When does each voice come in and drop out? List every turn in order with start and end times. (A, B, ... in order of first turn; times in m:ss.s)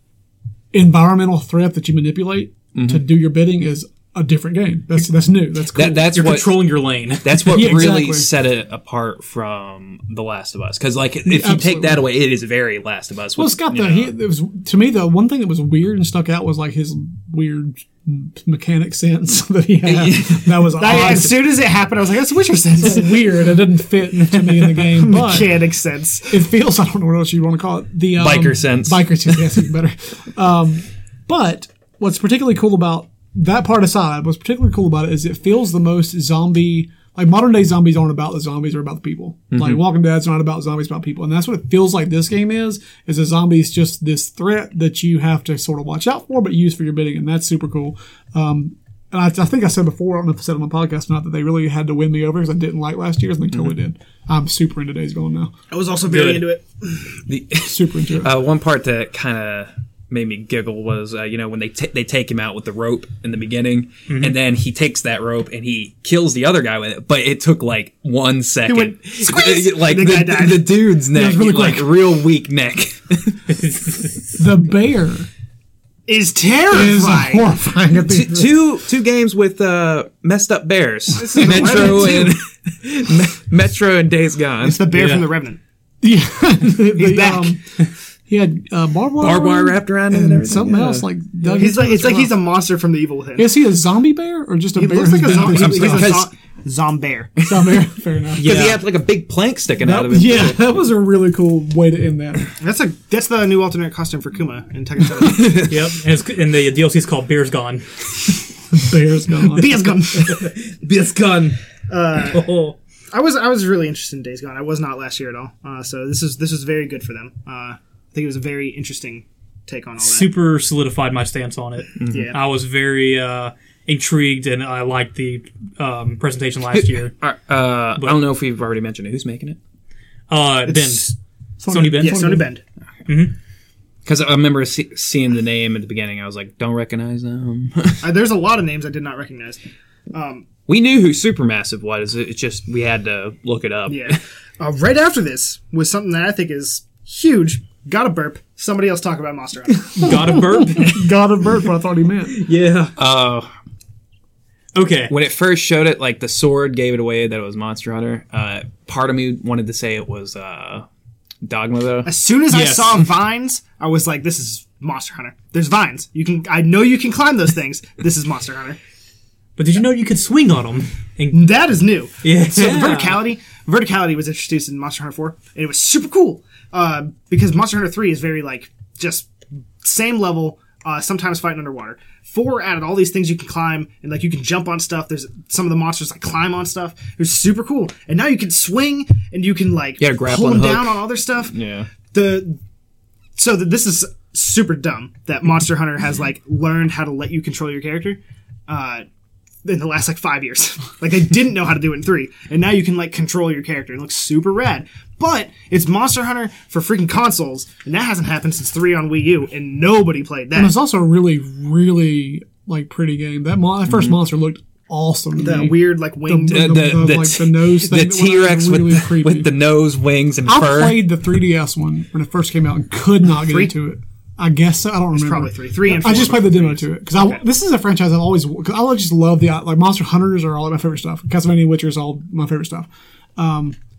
0:00.7-0:06.2 A
0:02.8-0:03.0 B
0:05.7-0:14.1 B
0:06.1-0:07.9 C
0:07.5-0:08.3 A
0:11.2-0:12.1 A
0:13.4-0:21.4 A
0:19.8-0:21.2 B
0:20.8-0:23.3 D
0:22.8-0:25.6 A
0:24.9-0:26.4 D
0:26.3-0:55.5 A
0:28.2-0:29.5 B
0:39.5-0:39.8 B
0:55.7-0:57.2 D
0:56.1-0:56.4 C
0:57.3-1:13.4 B
0:57.6-0:58.4 A
1:04.1-1:04.4 C
1:08.6-1:10.8 D
1:11.1-1:12.2 A
1:13.5-1:14.4 C
1:14.4-1:15.3 A
1:16.1-1:17.5 D
1:16.7-1:18.6 A
1:18.1-1:24.8 B
1:21.2-1:22.3 D
1:21.3-1:22.2 A
1:24.6-1:25.6 D
1:24.9-1:25.3 C
1:26.0-1:27.8 A
1:26.9-1:27.6 D
1:28.3-1:32.3 A
1:29.2-1:31.7 B
1:31.6-1:33.6 D
1:33.4-1:36.2 A
1:34.8-1:37.4 D
1:35.2-1:36.3 B
1:37.4-1:38.5 A
1:38.4-1:40.6 B
1:38.4-1:38.8 C
1:39.8-1:42.5 A
1:42.6-1:45.7 D
1:45.2-1:45.7 B
1:45.7-1:48.1 C
1:48.7-1:49.9 A
1:49.5-1:50.4 D
1:50.2-1:51.6 B
1:51.9-1:52.4 D
1:52.3-1:52.8 C
1:53.1-2:00.3 D
2:00.0-2:07.1 C
2:02.0-2:02.3 B
2:02.1-2:02.4 D
2:06.7-2:09.6 B
2:10.3-2:11.1 C
2:10.7-2:11.1 D
2:11.6-2:12.4 A
2:11.7-2:12.4 C
2:12.0-2:12.6 D
2:13.1-2:13.3 C
2:14.0-2:18.0 B
2:18.0-2:19.6 D
2:20.1-2:20.5 D
2:20.7-2:24.2 B
2:23.9-2:30.2 D
2:30.0-2:32.4 A
2:30.0-2:31.1 C
2:32.3-2:33.0 C
2:33.0-2:33.5 B
2:34.8-2:35.1 C
2:35.1-2:40.9 B
2:41.4-2:42.1 B
2:42.0-2:48.8 D
2:42.5-2:43.0 C
2:49.6-2:51.5 C
2:51.3-3:12.6 D
2:52.2-2:53.2 C
3:10.0-3:11.9 B
3:13.4-3:19.1 D
3:19.6-3:30.8 D
3:30.5-3:39.5 A
3:33.9-3:34.2 B
3:35.4-3:36.9 D
3:36.5-3:41.0 B
3:40.4-3:53.8 A
3:43.4-3:43.7 D
3:45.1-3:47.4 D